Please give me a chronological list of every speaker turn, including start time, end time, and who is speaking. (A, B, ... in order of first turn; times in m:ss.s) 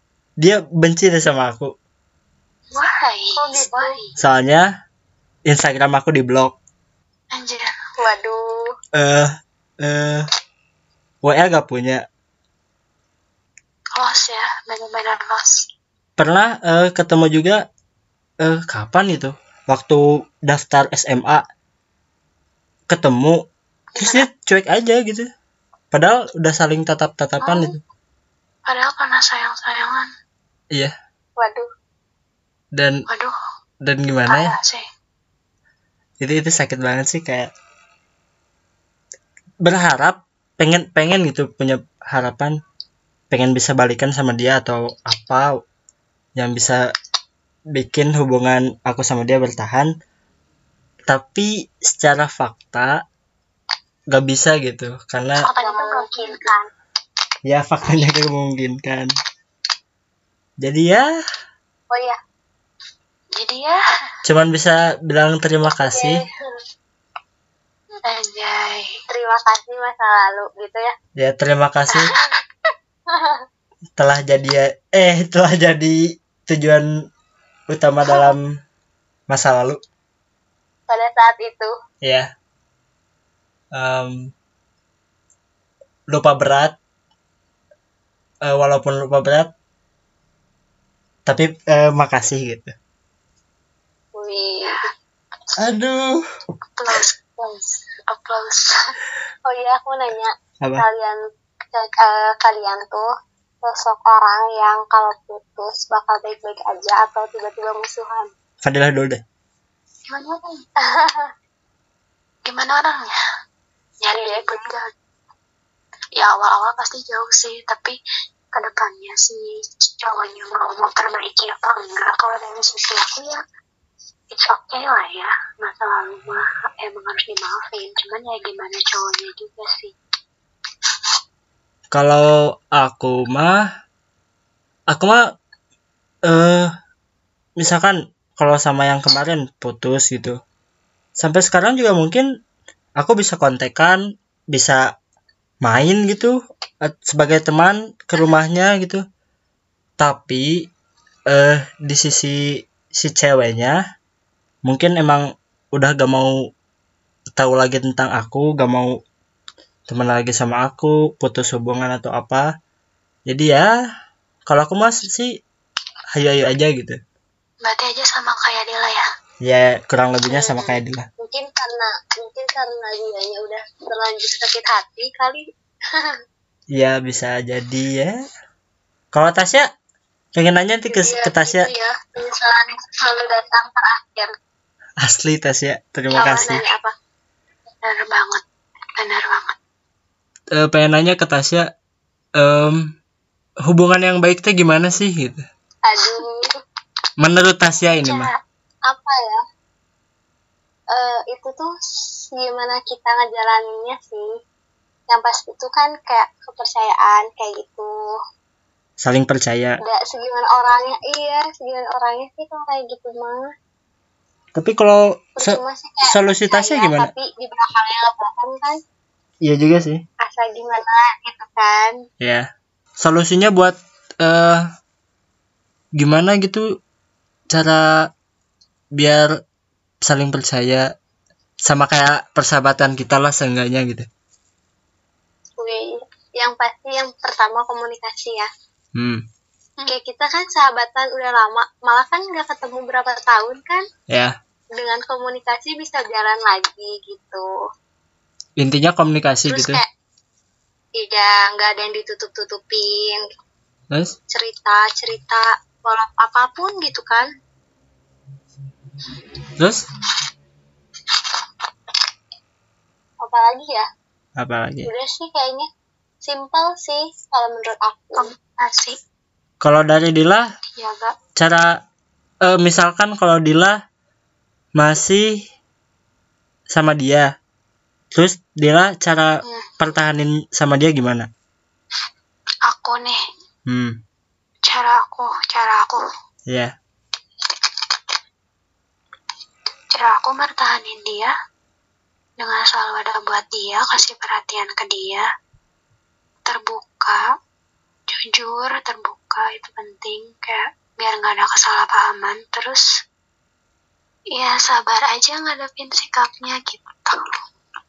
0:00.4-0:01.7 A
0:02.7-0:04.1 B
0:03.4-0:04.0 C
0:04.2-0:04.7 A
0:05.5-0:06.5 A
0:07.3-0:07.7 B
0:08.0-0:08.7 C
0:08.9-0:10.3 A
0:11.2-0:12.0 A
0:13.9-0:15.6 B
0:16.2-0:17.6 A
0:18.4-0:21.4 A
0:22.9-0:23.4 A
0:23.9-0:24.3 B
0:24.0-0:25.3 A
0:25.9-0:27.8 A
0:27.4-0:27.8 B
0:28.7-0:30.1 B
0:31.4-0:31.7 C
0:32.7-0:33.0 A
0:33.1-0:33.4 B
0:33.8-0:34.5 A
0:34.3-0:34.8 B
0:36.2-0:37.5 A
0:39.6-0:42.6 A
0:43.3-0:45.5 A
0:46.4-0:46.8 A
0:47.7-0:49.9 A
0:51.0-0:53.0 A
0:54.1-0:55.4 A
0:55.4-0:56.4 B
0:55.6-0:56.7 C
0:57.4-0:59.1 A
1:00.6-1:01.0 A
1:01.9-1:02.2 C
1:03.4-1:03.8 B
1:04.2-1:06.2 A
1:05.6-1:06.3 C
1:08.0-1:09.0 B
1:09.1-1:10.9 C
1:11.2-1:12.1 A
1:13.1-1:13.4 C
1:14.0-1:16.9 A
1:17.7-1:18.5 A
1:19.3-1:19.8 A
1:20.9-1:21.7 C
1:22.0-1:22.3 A
1:23.7-1:24.3 A
1:26.1-1:26.8 A
1:28.4-1:29.5 A
1:31.2-1:32.7 A
1:34.1-1:34.9 C
1:35.6-1:36.2 A
1:36.8-1:38.8 B
1:39.4-1:41.2 C
1:41.7-1:43.1 C
1:43.6-1:48.3 C
1:48.6-1:49.2 A
1:50.1-1:50.6 B
1:50.8-1:51.3 C
1:52.4-1:53.1 B
1:54.0-1:54.9 B
1:54.1-1:54.6 C
1:56.2-1:58.0 B
1:58.5-2:03.4 B
2:04.3-2:09.9 B
2:11.9-2:13.6 A
2:14.9-2:15.2 A
2:16.3-2:16.7 A
2:17.6-2:20.4 A
2:21.2-2:22.3 A
2:23.0-2:24.0 A
2:24.5-2:24.8 A
2:25.6-2:29.0 A
2:30.0-2:30.7 A
2:31.3-2:33.8 A
2:34.6-2:36.3 A
2:37.4-2:38.9 A
2:39.9-2:42.5 A
2:43.3-2:43.7 A
2:44.5-2:45.3 A
2:46.1-2:47.0 A
2:47.6-2:49.0 B
2:49.4-2:51.1 A
2:50.3-2:56.2 C
2:56.7-2:58.1 A
2:59.1-2:59.7 A
3:00.3-3:01.7 A
3:00.9-3:04.3 C
3:05.0-3:06.6 A
3:06.1-3:06.9 C
3:06.2-3:06.6 B
3:07.8-3:08.4 B
3:09.0-3:09.6 B
3:10.5-3:11.7 A
3:12.4-3:12.9 A
3:13.7-3:15.4 A
3:15.8-3:16.4 C
3:17.2-3:18.3 A
3:17.9-3:18.3 B
3:18.9-3:19.4 C
3:20.9-3:21.7 C
3:22.3-3:24.3 C
3:25.1-3:27.9 C
3:29.0-3:29.8 A
3:29.8-3:33.5 C
3:34.6-3:37.1 A
3:35.4-3:38.8 C
3:39.4-3:40.0 A
3:40.2-3:42.0 C
3:42.2-3:42.5 A
3:43.0-3:44.7 A
3:46.0-3:46.6 A
3:47.5-3:48.1 A
3:49.0-3:49.3 A
3:50.0-3:50.9 A
3:51.6-3:54.1 A
3:55.6-3:58.5 C
3:59.0-3:59.2 A
3:59.9-4:03.8 C
4:04.1-4:04.3 A
4:04.8-4:07.5 C
4:08.6-4:09.8 A
4:09.5-4:09.9 C
4:11.0-4:13.3 C
4:13.9-4:14.2 A
4:14.3-4:17.3 C
4:19.6-4:19.8 A
4:23.2-4:23.9 C
4:24.4-4:24.9 A
4:24.8-4:25.7 C
4:26.2-4:28.3 C
4:28.1-4:29.0 B
4:29.6-4:30.5 A
4:30.7-4:31.1 B
4:31.4-4:31.8 A
4:32.4-4:33.8 A
4:34.8-4:35.4 A
4:36.7-4:37.3 A
4:38.1-4:41.3 A
4:39.4-4:39.7 B
4:42.7-4:43.2 B
4:43.7-4:44.0 A
4:44.6-4:46.0 B
4:46.5-4:46.7 A
4:49.9-4:51.3 B
4:52.4-4:55.2 B
4:56.4-4:57.2 B
4:58.1-5:02.8 B
5:04.3-5:07.2 B